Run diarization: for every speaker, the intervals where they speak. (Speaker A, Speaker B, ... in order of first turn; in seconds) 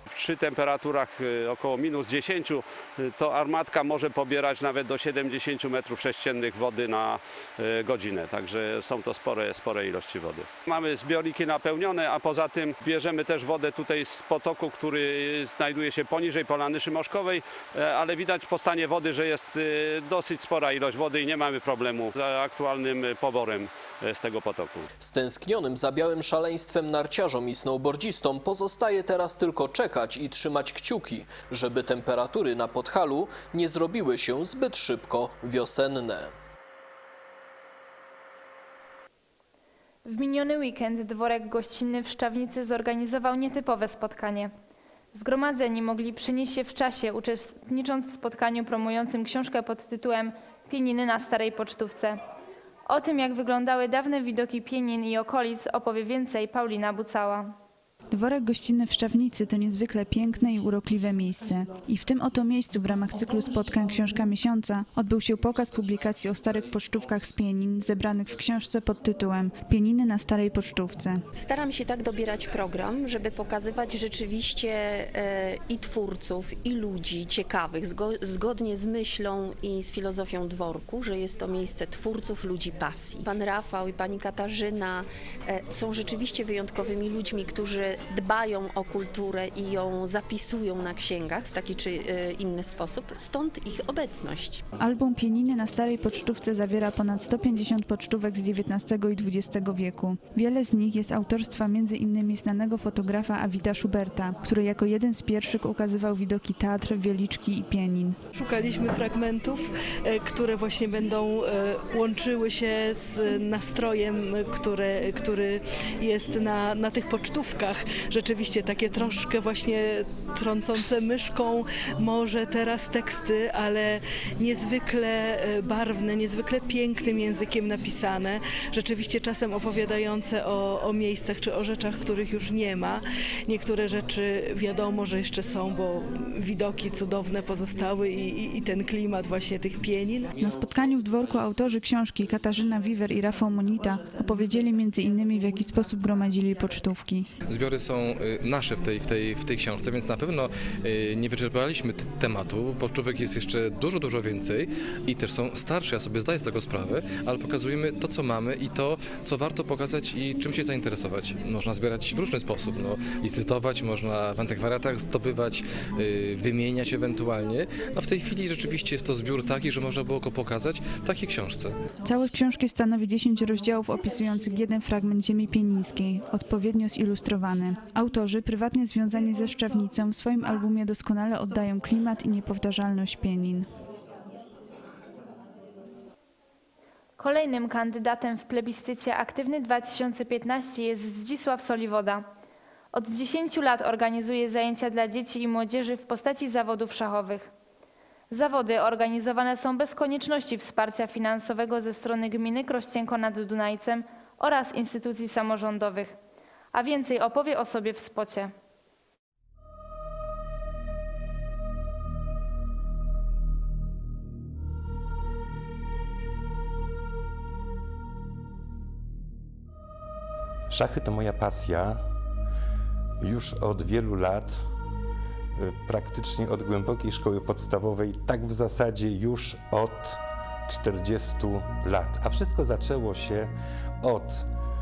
Speaker A: 0.1-24.9
Speaker B: 25.0-36.3
Speaker C: 40.0-44.5, 45.1-52.2, 52.9-57.5, 187.2-192.3, 192.9-197.5, 198.3-206.2, 206.7-208.5
Speaker D: 58.1-71.2, 94.8-108.2, 140.4-147.3, 172.1-183.7
Speaker E: 71.3-94.6
Speaker F: 108.3-140.3
Speaker G: 147.5-171.8
Speaker H: 220.7-222.0, 223.2-224.7, 225.6-234.5